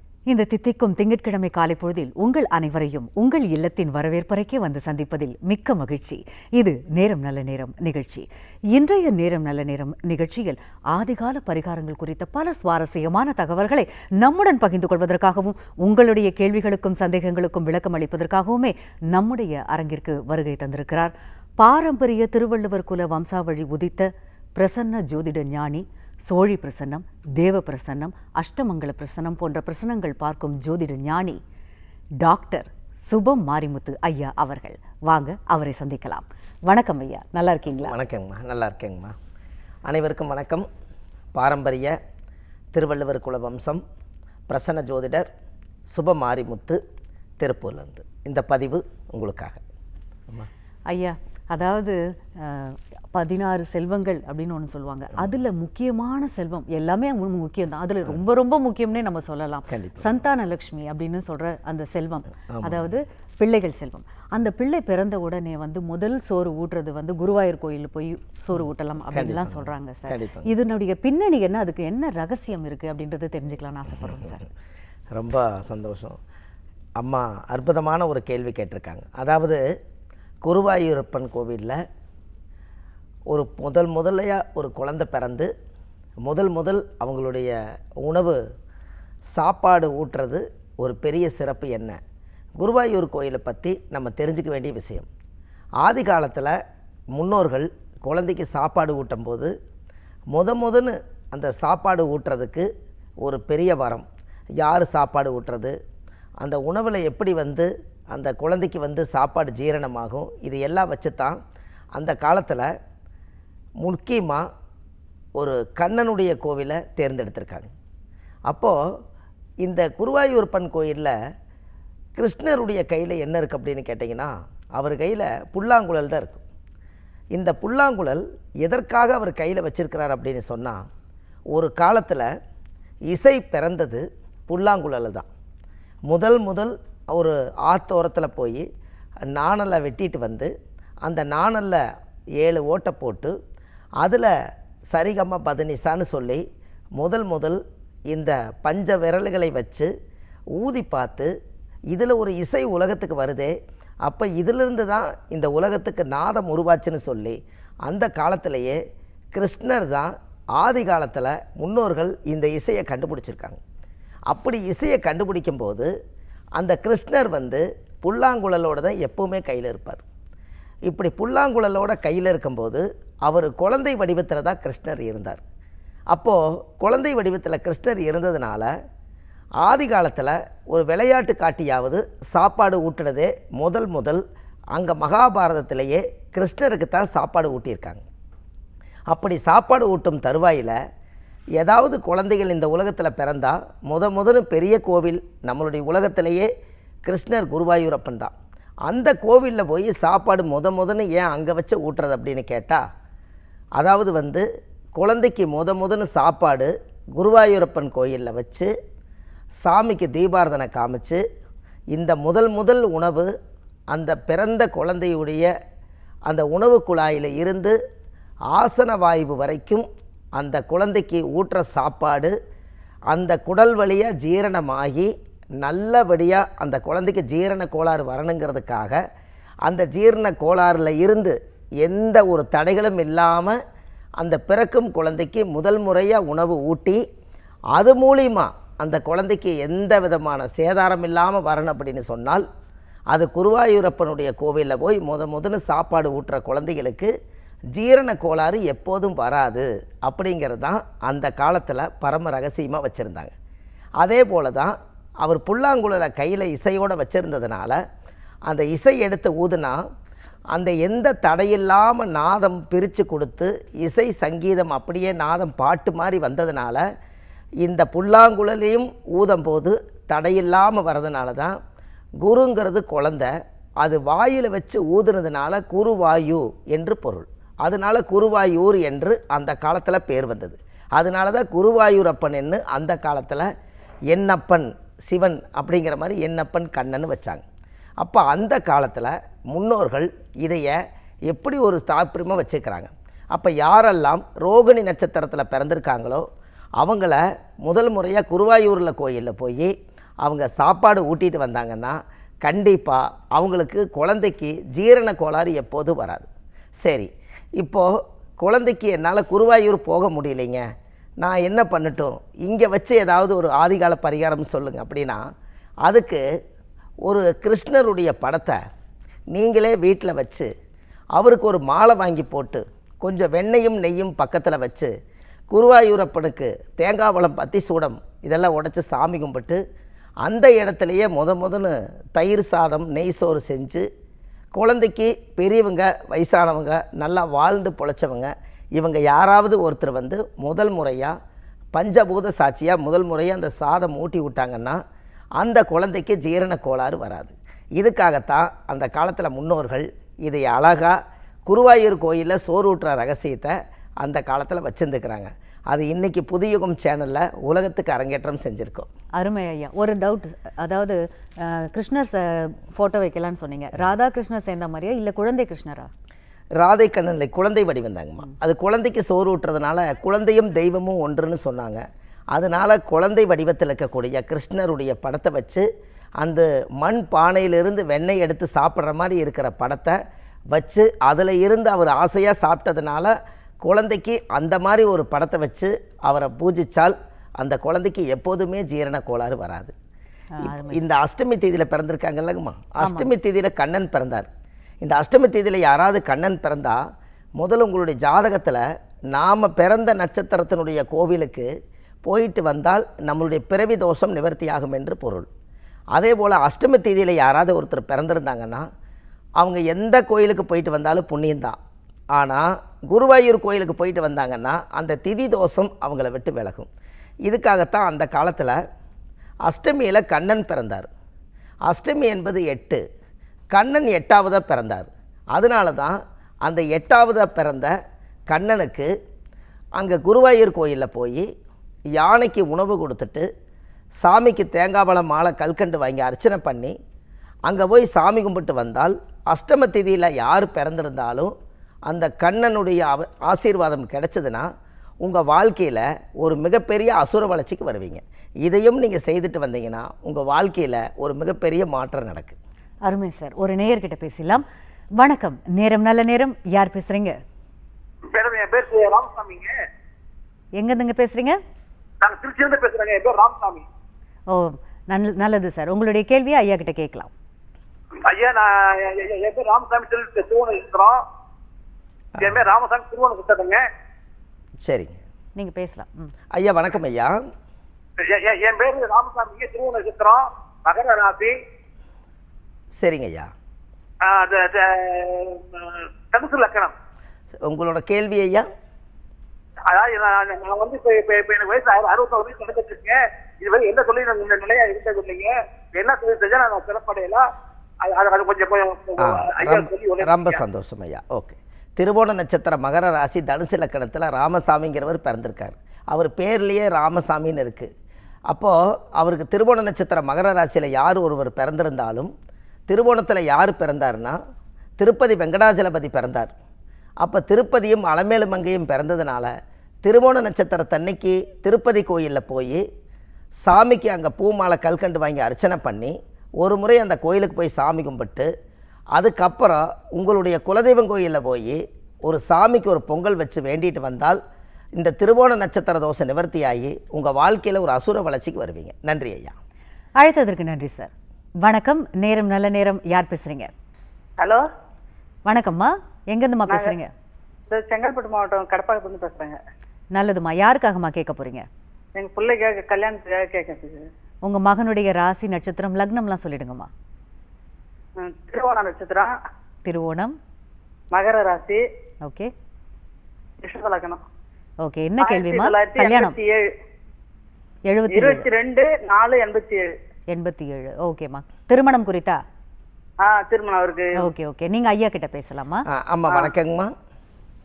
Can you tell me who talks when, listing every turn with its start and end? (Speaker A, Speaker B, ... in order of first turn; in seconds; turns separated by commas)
Speaker A: 0.3-31.4, Speaker A: 32.2-37.9, Speaker B: 37.8-39.1, Speaker B: 39.9-40.7, Speaker B: 41.3-42.0, Speaker B: 42.7-43.8, Speaker B: 44.5-45.3, Speaker B: 45.9-46.8, Speaker B: 47.4-49.6, Speaker A: 50.9-74.5, Speaker B: 59.7-60.1, Speaker B: 62.5-62.9, Speaker B: 69.1-70.5, Speaker B: 75.1-76.2, Speaker B: 77.0-79.6, Speaker B: 80.4-81.8, Speaker B: 83.3-85.5, Speaker B: 86.2-88.4, Speaker B: 89.3-92.0, Speaker B: 92.6-95.1, Speaker B: 95.8-96.6, Speaker B: 97.1-99.5, Speaker B: 100.3-102.7, Speaker B: 103.2-104.0, Speaker B: 104.6-105.7, Speaker B: 106.4-111.4, Speaker B: 112.0-112.7, Speaker B: 113.8-114.5, Speaker B: 115.3-117.7, Speaker B: 118.5-118.8, Speaker B: 119.6-121.1, Speaker B: 122.2-126.4, Speaker B: 127.3-130.8, Speaker B: 131.5-132.3, Speaker B: 133.1-135.3, Speaker B: 136.1-138.6, Speaker B: 139.3-140.5, Speaker B: 141.0-141.8, Speaker B: 142.4-143.3, Speaker B: 144.0-144.3, Speaker B: 144.9-146.4, Speaker B: 147.0-147.6, Speaker B: 148.1-149.9, Speaker B: 150.6-151.3, Speaker B: 151.9-153.5, Speaker B: 154.0-158.8, Speaker B: 159.3-163.6, Speaker B: 164.3-165.9, Speaker B: 166.6-170.0, Speaker B: 170.9-175.4, Speaker B: 176.1-178.7, Speaker B: 179.6-184.2, Speaker B: 184.7-188.0, Speaker B: 189.1-190.8, Speaker B: 191.6-196.5, Speaker B: 197.1-198.3, Speaker B: 198.9-202.8, Speaker B: 203.8-208.7, Speaker B: 209.6-211.2, Speaker B: 211.9-213.3, Speaker B: 213.9-215.5, Speaker B: 216.3-217.8, Speaker B: 218.5-222.3, Speaker B: 223.1-225.1, Speaker B: 225.6-229.0, Speaker B: 229.7-233.6, Speaker B: 234.2-237.0, Speaker B: 237.7-242.4, Speaker B: 243.1-247.1, Speaker B: 247.7-253.3, Speaker B: 254.0-257.8, Speaker B: 258.5-259.8, Speaker B: 260.5-266.8, Speaker B: 267.6-271.6, Speaker B: 272.2-283.5, Speaker B: 284.1-287.4, Speaker B: 288.0-290.8, Speaker B: 291.3-296.2, Speaker B: 296.8-306.3, Speaker B: 306.8-310.6, Speaker B: 311.2-315.2, Speaker B: 315.8-316.2, Speaker B: 317.0-318.6, Speaker B: 319.3-320.5, Speaker B: 321.1-324.9, Speaker B: 325.5-329.6, Speaker B: 330.2-333.9, Speaker B: 334.5-341.1, Speaker B: 341.7-344.8, Speaker B: 345.4-358.9, Speaker A: 359.1-365.9, Speaker B: 366.6-375.6, Speaker B: 376.2-380.0, Speaker B: 380.5-389.7, Speaker A: 390.3-390.9, Speaker B: 390.4-394.3, Speaker A: 392.8-393.1, Speaker B: 394.8-396.8, Speaker B: 397.4-401.5, Speaker B: 402.0-405.3, Speaker B: 405.9-408.6, Speaker B: 409.4-411.6, Speaker B: 412.1-416.7, Speaker B: 417.2-418.6, Speaker B: 419.4-420.9, Speaker B: 421.7-422.8, Speaker B: 423.5-427.7, Speaker B: 428.3-428.9, Speaker B: 429.8-431.3, Speaker B: 432.0-433.3, Speaker B: 434.0-436.7, Speaker B: 437.4-441.3, Speaker B: 441.9-444.5, Speaker B: 445.0-452.4, Speaker A: 452.8-454.4, Speaker A: 455.0-457.2, Speaker C: 458.1-459.5, Speaker A: 460.6-461.4, Speaker C: 462.0-463.6, Speaker A: 464.3-467.1, Speaker C: 468.0-471.0, Speaker B: 472.2-472.5, Speaker C: 472.2-473.6, Speaker B: 474.6-475.0, Speaker A: 475.4-476.1, Speaker B: 476.3-477.2, Speaker C: 478.0-481.4, Speaker B: 482.8-483.3, Speaker C: 484.0-486.7, Speaker B: 487.4-488.5, Speaker C: 489.7-497.2, Speaker C: 497.8-500.4, Speaker B: 499.0-507.7, Speaker B: 508.3-512.1, Speaker B: 512.7-514.2, Speaker B: 514.8-516.3, Speaker B: 517.0-519.3, Speaker B: 519.8-522.6, Speaker B: 523.4-528.3, Speaker B: 528.9-534.2, Speaker B: 534.8-539.3, Speaker A: 540.0-540.9, Speaker A: 541.4-543.5, Speaker A: 545.2-546.9, Speaker D: 546.5-546.8, Speaker D: 547.5-549.4, Speaker A: 549.9-551.5, Speaker D: 552.0-553.9, Speaker A: 554.2-556.7, Speaker D: 558.0-559.1, Speaker A: 559.6-560.2, Speaker D: 560.9-561.6, Speaker A: 562.0-562.3, Speaker D: 563.4-564.0, Speaker A: 564.6-566.1, Speaker D: 565.0-566.5, Speaker A: 567.7-568.3, Speaker D: 567.9-569.7, Speaker A: 570.1-572.2, Speaker D: 573.0-573.9, Speaker A: 574.0-575.6, Speaker B: 575.7-576.7